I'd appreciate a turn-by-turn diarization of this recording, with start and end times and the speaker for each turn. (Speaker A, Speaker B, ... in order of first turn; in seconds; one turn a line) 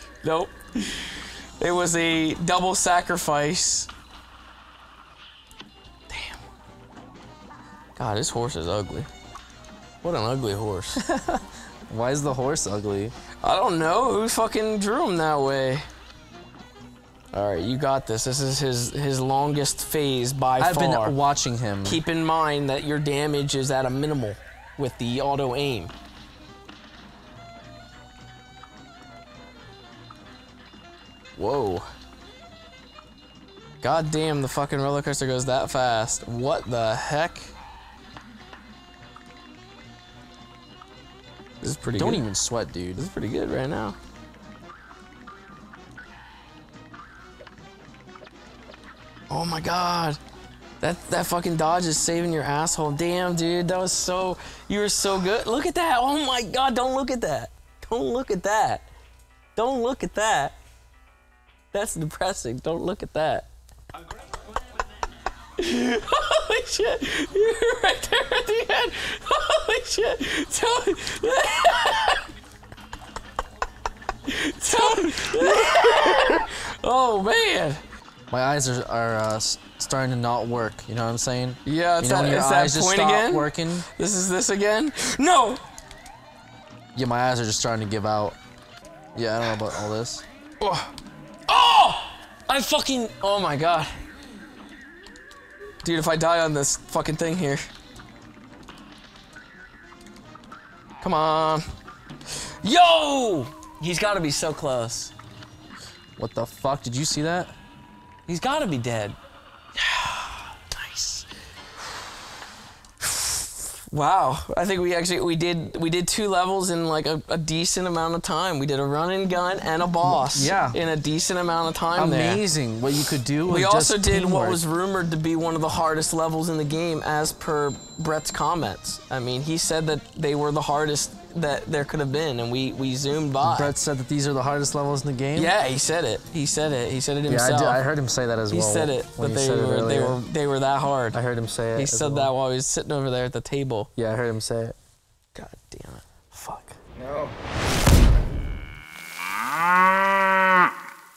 Speaker A: 0.2-3.9
Speaker A: 6.1-6.4
Speaker A: 8.0-9.1
Speaker A: 10.0-11.0
Speaker B: 11.0-13.1
Speaker A: 13.4-15.8
Speaker A: 17.3-21.2
Speaker B: 20.6-22.0
Speaker A: 21.8-25.9
Speaker A: 31.4-31.9
Speaker A: 33.8-37.5
Speaker A: 41.6-42.2
Speaker B: 42.0-43.0
Speaker A: 43.0-44.0
Speaker A: 49.3-50.2
Speaker A: 50.8-58.9
Speaker A: 59.6-60.6
Speaker A: 61.7-63.5
Speaker A: 65.6-72.2
Speaker A: 74.3-77.8
Speaker B: 78.3-83.9
Speaker A: 81.7-85.6
Speaker B: 87.0-88.4
Speaker B: 89.2-90.2
Speaker A: 90.6-90.9
Speaker A: 91.5-93.9
Speaker A: 95.8-97.7
Speaker A: 101.0-101.6
Speaker A: 102.3-105.1
Speaker B: 106.2-107.5
Speaker A: 108.3-109.2
Speaker A: 109.8-111.3
Speaker A: 113.0-122.4
Speaker B: 120.0-120.8
Speaker B: 122.0-124.6
Speaker A: 123.5-133.7
Speaker B: 133.4-135.5
Speaker A: 135.3-137.8
Speaker B: 137.3-140.2
Speaker A: 138.5-141.2
Speaker B: 141.1-142.3
Speaker A: 141.8-143.9
Speaker B: 144.0-144.8
Speaker A: 145.3-146.8